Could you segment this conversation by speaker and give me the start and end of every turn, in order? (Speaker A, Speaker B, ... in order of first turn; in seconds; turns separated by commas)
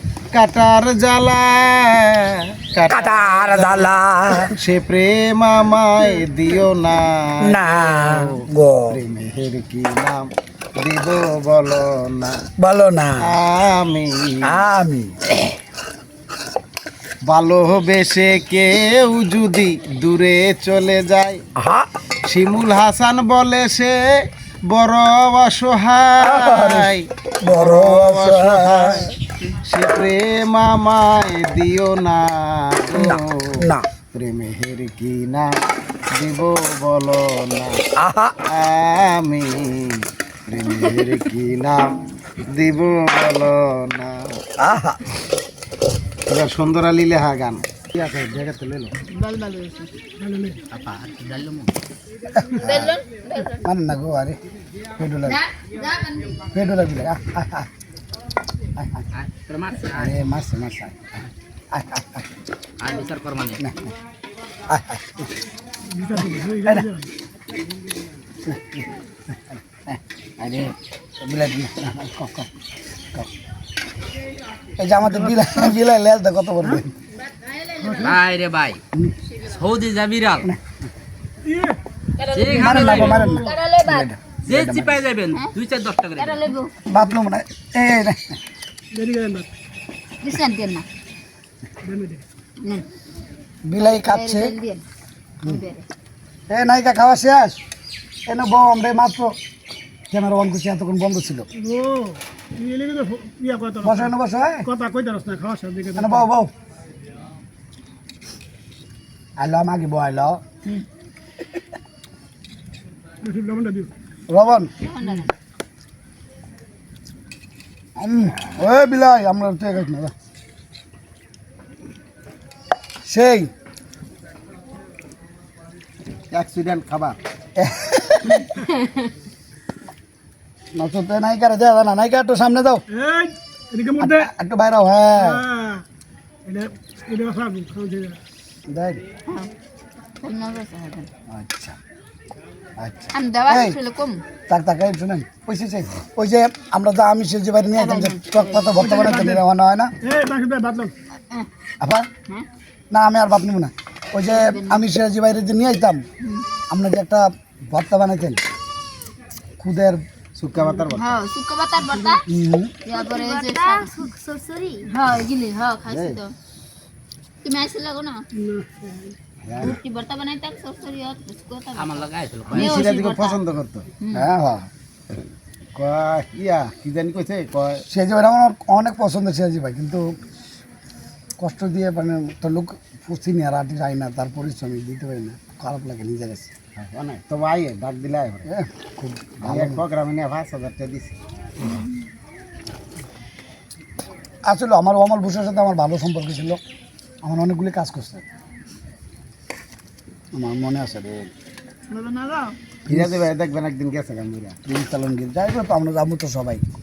Speaker A: 0.3-3.9, Speaker B: 2.9-4.5, Speaker A: 4.5-12.3, Speaker B: 7.4-8.9, Speaker B: 12.6-13.3, Speaker A: 13.2-14.6, Speaker B: 14.4-15.2, Speaker A: 17.2-21.4, Speaker B: 21.6-21.9, Speaker A: 22.3-24.0, Speaker A: 24.7-29.1, Speaker B: 26.2-29.1, Speaker A: 29.6-35.5, Speaker B: 32.9-33.8, Speaker A: 36.1-37.8, Speaker B: 38.0-38.3, Speaker A: 38.5-44.4, Speaker B: 44.6-45.0, Speaker A: 46.3-48.9, Speaker C: 49.1-49.9, Speaker D: 50.2-50.6, Speaker E: 50.7-51.7, Speaker B: 52.3-53.0, Speaker C: 52.6-53.5, Speaker B: 53.5-54.4, Speaker B: 55.0-55.4, Speaker C: 55.3-56.4, Speaker B: 56.5-57.7, Speaker B: 58.8-59.0, Speaker E: 59.1-60.2, Speaker B: 59.9-61.0, Speaker B: 61.7-62.2, Speaker E: 62.8-63.7, Speaker B: 64.7-65.3, Speaker D: 65.9-67.1, Speaker B: 68.5-68.8, Speaker B: 69.9-72.5, Speaker B: 74.8-76.9, Speaker D: 75.0-75.7, Speaker D: 77.8-78.2, Speaker E: 78.0-78.8, Speaker E: 79.4-80.5, Speaker D: 81.4-81.8, Speaker C: 82.2-84.0, Speaker E: 82.3-83.4, Speaker B: 82.5-85.0, Speaker E: 84.5-86.5, Speaker C: 86.2-86.7, Speaker B: 86.9-88.2, Speaker D: 88.9-89.5, Speaker C: 90.2-90.8, Speaker D: 91.8-92.2, Speaker B: 93.6-94.5, Speaker C: 94.1-94.8, Speaker C: 95.4-95.8, Speaker B: 96.5-97.6, Speaker B: 98.3-99.3, Speaker B: 100.1-101.5, Speaker D: 101.5-104.1, Speaker B: 103.8-104.7, Speaker D: 104.6-106.3, Speaker B: 106.0-106.5, Speaker B: 109.4-110.4, Speaker D: 113.2-113.9, Speaker B: 114.3-114.7, Speaker C: 114.8-115.3, Speaker B: 118.0-120.1, Speaker B: 123.0-123.5, Speaker A: 126.3-127.2, Speaker B: 127.6-128.6, Speaker B: 130.7-132.8, Speaker D: 132.9-134.3, Speaker B: 134.0-135.4, Speaker D: 135.2-135.8, Speaker D: 136.4-138.2, Speaker B: 138.7-139.0, Speaker C: 140.2-141.1, Speaker B: 141.3-141.8, Speaker B: 142.8-143.8, Speaker C: 143.1-144.2, Speaker B: 144.5-149.9, Speaker C: 147.8-148.6, Speaker D: 148.7-149.4, Speaker D: 150.0-150.9, Speaker B: 151.8-152.1, Speaker B: 152.9-156.0, Speaker C: 154.3-154.8, Speaker B: 156.7-158.4, Speaker B: 159.6-160.0, Speaker A: 160.3-161.2, Speaker D: 160.6-160.9, Speaker C: 161.0-162.2, Speaker D: 161.9-162.1, Speaker B: 162.3-162.7, Speaker C: 162.8-166.3, Speaker A: 165.9-166.2, Speaker C: 167.4-168.2, Speaker D: 168.4-169.7, Speaker A: 169.4-169.8, Speaker C: 169.6-172.0, Speaker E: 171.7-172.9, Speaker A: 172.5-173.9, Speaker C: 172.5-173.4, Speaker B: 174.1-174.7, Speaker A: 175.7-177.8, Speaker B: 177.9-180.0, Speaker B: 181.4-186.5, Speaker A: 186.8-188.5, Speaker B: 188.5-189.8, Speaker A: 189.4-191.2, Speaker B: 194.4-196.6, Speaker B: 197.2-198.2, Speaker B: 200.3-201.3, Speaker D: 201.9-202.5, Speaker A: 202.9-204.6, Speaker B: 202.9-203.2, Speaker B: 204.7-206.6